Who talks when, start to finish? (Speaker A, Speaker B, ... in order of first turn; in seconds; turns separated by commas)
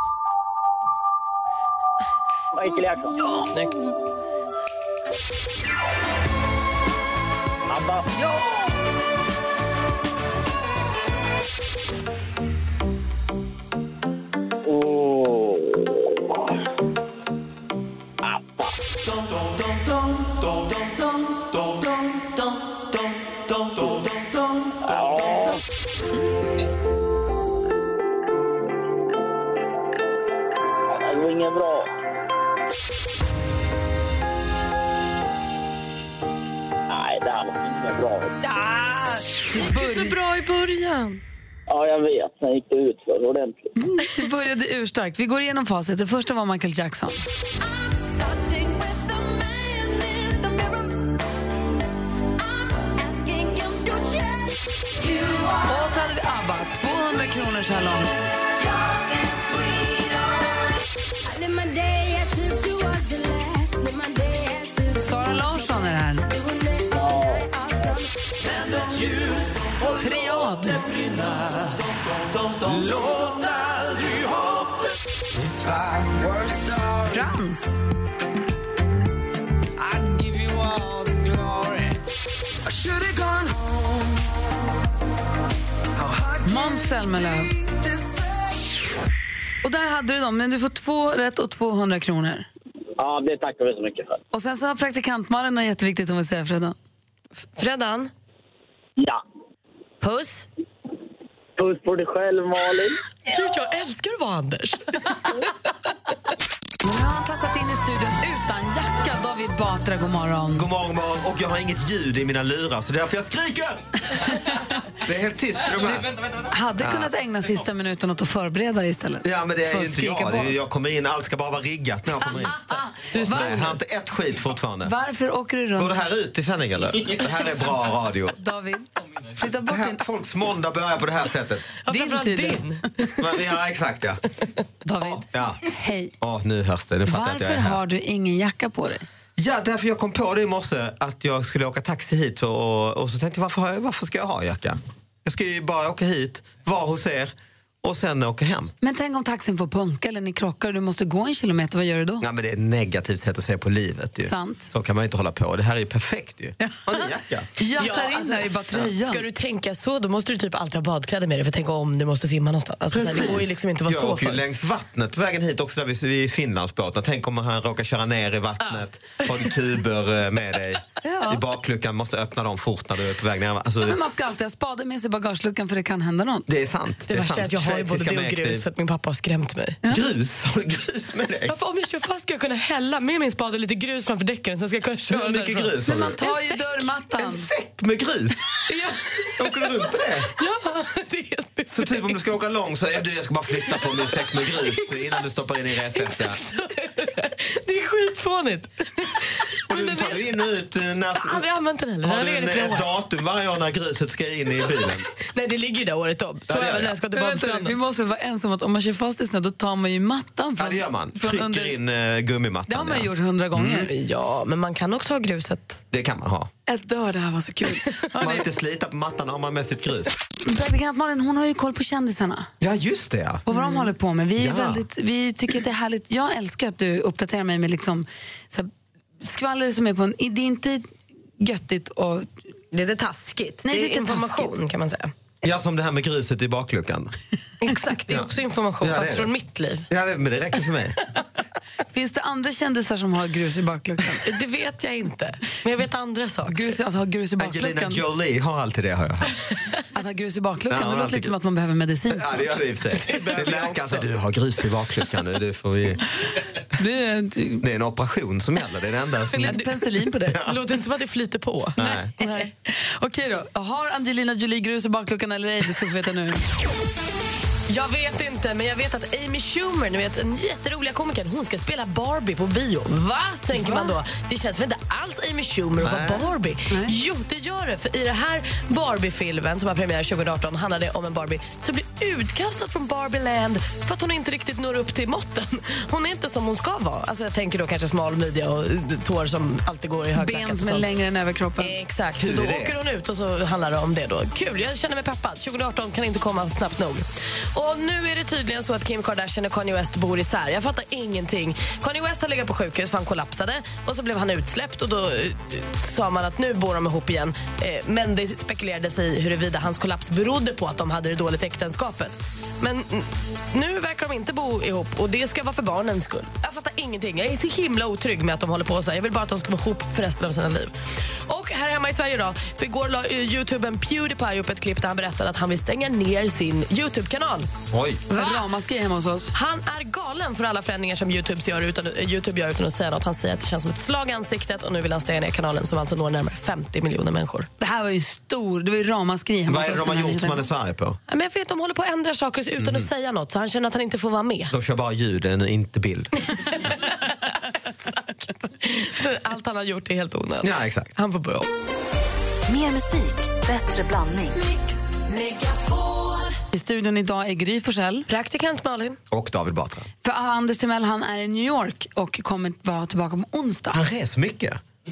Speaker A: 2.5-3.1, Speaker B: 3.2-3.5, Speaker A: 7.7-8.1, Speaker B: 8.2-8.6, Speaker A: 14.6-16.4, Speaker A: 18.2-18.8, Speaker A: 24.8-25.6, Speaker A: 30.9-31.9, Speaker A: 36.9-38.4, Speaker B: 38.4-40.1, Speaker C: 39.5-41.2, Speaker A: 41.7-43.7, Speaker B: 43.8-47.2, Speaker D: 53.0-55.5, Speaker B: 55.6-58.2, Speaker D: 58.8-60.6, Speaker D: 61.2-65.6, Speaker B: 65.0-66.3, Speaker D: 66.3-69.1, Speaker B: 69.9-70.9, Speaker B: 77.0-77.8, Speaker B: 86.4-87.9, Speaker B: 89.6-92.5, Speaker A: 93.0-94.2, Speaker B: 94.3-96.8, Speaker C: 97.6-98.1, Speaker C: 100.0-100.5, Speaker A: 101.6-103.0, Speaker C: 103.3-105.1, Speaker B: 106.8-110.7, Speaker E: 110.5-113.8, Speaker E: 115.0-116.1, Speaker B: 116.5-120.6, Speaker E: 116.8-117.1, Speaker E: 119.2-125.0, Speaker B: 122.2-123.7, Speaker C: 123.1-123.6, Speaker B: 124.8-126.0, Speaker E: 125.8-128.4, Speaker B: 128.4-130.0, Speaker E: 129.6-131.7, Speaker C: 131.8-133.2, Speaker B: 131.9-132.6, Speaker E: 133.2-134.2, Speaker B: 134.8-136.1, Speaker E: 135.0-135.6, Speaker E: 136.2-137.8, Speaker B: 137.1-139.1, Speaker E: 139.4-148.7, Speaker B: 148.8-152.2, Speaker E: 152.2-157.5, Speaker B: 154.2-154.7, Speaker B: 156.6-157.0, Speaker B: 157.6-159.2, Speaker C: 157.8-164.5, Speaker E: 162.9-174.0, Speaker C: 168.6-169.3, Speaker B: 171.0-171.4, Speaker B: 173.8-176.5, Speaker E: 176.5-178.7, Speaker C: 177.1-179.8, Speaker E: 179.9-181.6, Speaker C: 181.5-186.4, Speaker E: 185.1-186.2, Speaker B: 185.9-187.5, Speaker E: 187.2-188.4, Speaker C: 188.7-189.8, Speaker E: 189.4-190.3, Speaker C: 190.4-192.2, Speaker E: 191.7-196.4, Speaker C: 193.7-195.2, Speaker C: 195.9-200.4, Speaker E: 199.7-201.4, Speaker C: 201.1-202.9, Speaker E: 202.0-205.1, Speaker C: 204.7-207.8, Speaker E: 206.5-206.9, Speaker B: 207.1-211.8, Speaker E: 210.6-213.9, Speaker B: 212.7-213.9, Speaker C: 213.9-215.8, Speaker E: 215.9-216.5, Speaker B: 216.7-218.5, Speaker E: 218.2-220.1, Speaker B: 220.4-222.5, Speaker E: 222.6-223.4, Speaker B: 223.5-228.7, Speaker E: 224.4-224.8, Speaker B: 229.2-230.9, Speaker B: 231.4-232.3, Speaker C: 232.7-235.1, Speaker B: 233.6-234.5, Speaker E: 235.4-237.1, Speaker C: 237.6-239.9, Speaker E: 238.8-239.3, Speaker E: 239.9-241.0, Speaker B: 241.9-244.3, Speaker C: 244.2-246.8, Speaker B: 246.5-248.0, Speaker E: 247.4-249.3, Speaker B: 249.9-252.6, Speaker E: 250.7-251.3, Speaker E: 252.1-256.0, Speaker C: 252.9-254.1, Speaker B: 256.8-257.6, Speaker E: 257.6-259.6, Speaker B: 259.3-260.4, Speaker E: 260.3-260.6, Speaker C: 260.4-262.5, Speaker E: 261.8-262.1, Speaker B: 262.2-266.4, Speaker C: 267.7-290.9, Speaker B: 273.5-273.9, Speaker E: 275.8-276.3, Speaker B: 290.1-291.8, Speaker C: 291.6-320.7, Speaker E: 292.2-292.8, Speaker C: 321.3-327.5, Speaker E: 327.7-328.0, Speaker B: 328.1-329.3, Speaker C: 329.3-337.5, Speaker B: 337.6-340.4, Speaker E: 339.5-341.0, Speaker C: 341.1-344.5, Speaker E: 342.6-342.9, Speaker E: 344.5-346.1, Speaker C: 346.6-346.9, Speaker C: 347.9-351.5, Speaker E: 350.4-350.9, Speaker D: 352.5-354.4, Speaker C: 355.3-355.6, Speaker B: 356.5-358.1, Speaker C: 358.1-359.0, Speaker E: 359.1-359.9, Speaker B: 360.0-363.8, Speaker E: 363.7-364.6